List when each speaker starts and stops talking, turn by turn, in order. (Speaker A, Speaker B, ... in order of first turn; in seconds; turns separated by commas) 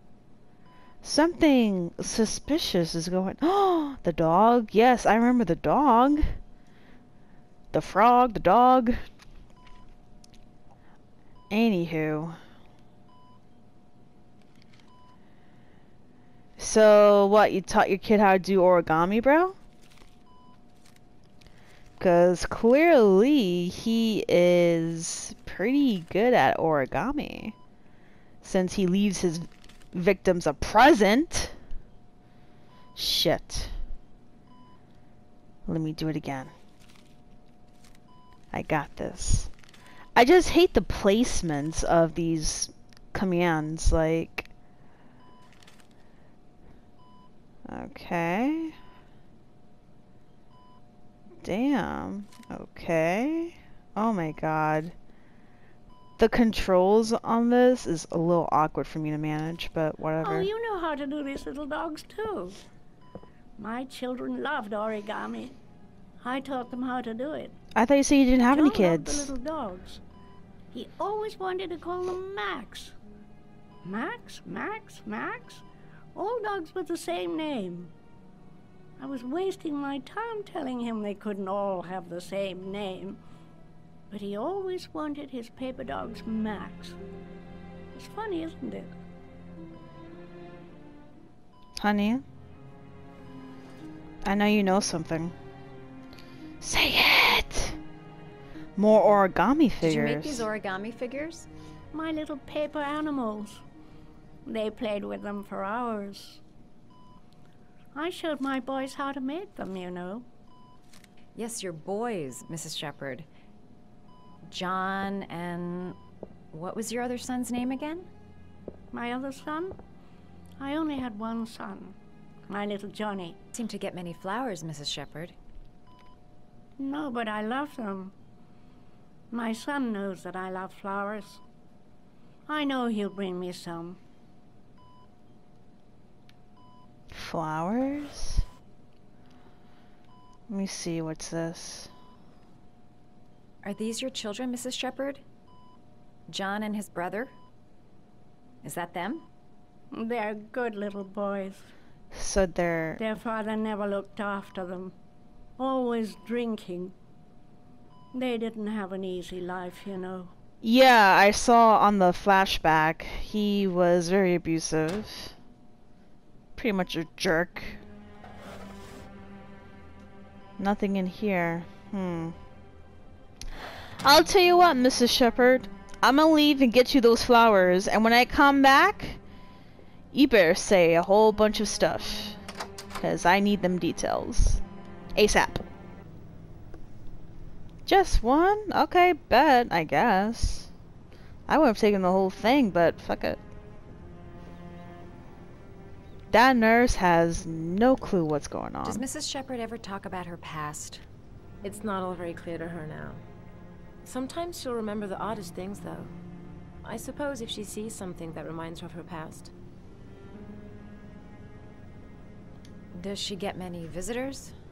Speaker A: 1.0-6.3, Speaker A: 7.7-9.0, Speaker A: 11.5-12.4, Speaker A: 16.6-19.6, Speaker A: 22.0-27.6, Speaker A: 28.4-31.6, Speaker A: 33.0-33.7, Speaker A: 35.7-36.5, Speaker A: 38.5-39.5, Speaker A: 40.2-44.5, Speaker A: 47.7-48.8, Speaker A: 51.4-55.0, Speaker A: 56.2-60.5, Speaker B: 60.2-62.6, Speaker B: 63.6-65.6, Speaker B: 66.2-67.6, Speaker A: 67.8-69.3, Speaker B: 68.5-70.0, Speaker B: 70.7-73.0, Speaker B: 73.8-75.6, Speaker B: 76.2-77.9, Speaker B: 79.0-83.2, Speaker B: 84.1-87.0, Speaker B: 87.9-88.9, Speaker A: 91.8-92.2, Speaker A: 94.2-95.3, Speaker A: 96.6-97.8, Speaker A: 98.8-100.5, Speaker C: 99.8-101.5, Speaker B: 101.9-103.6, Speaker B: 104.5-106.4, Speaker B: 107.9-110.3, Speaker C: 111.3-113.3, Speaker C: 114.5-116.0, Speaker C: 116.5-118.1, Speaker B: 118.9-119.8, Speaker B: 120.6-122.0, Speaker B: 122.5-123.4, Speaker C: 123.5-125.4, Speaker B: 126.8-128.1, Speaker B: 129.3-131.4, Speaker B: 132.5-134.0, Speaker A: 137.1-138.4, Speaker A: 140.5-141.9, Speaker C: 143.6-145.2, Speaker C: 146.3-147.3, Speaker C: 148.6-149.3, Speaker B: 149.9-151.7, Speaker A: 152.1-153.0, Speaker B: 153.0-154.9, Speaker B: 155.6-156.9, Speaker B: 158.1-160.3, Speaker A: 160.6-165.3, Speaker A: 166.6-167.8, Speaker A: 170.6-172.4, Speaker A: 174.0-179.2, Speaker A: 180.1-182.4, Speaker A: 183.0-184.6, Speaker A: 185.2-185.6, Speaker A: 187.9-190.7, Speaker A: 191.5-193.4, Speaker A: 196.3-199.0, Speaker C: 198.8-201.0, Speaker D: 201.6-203.2, Speaker D: 204.0-206.1, Speaker D: 206.8-209.5, Speaker C: 212.9-214.6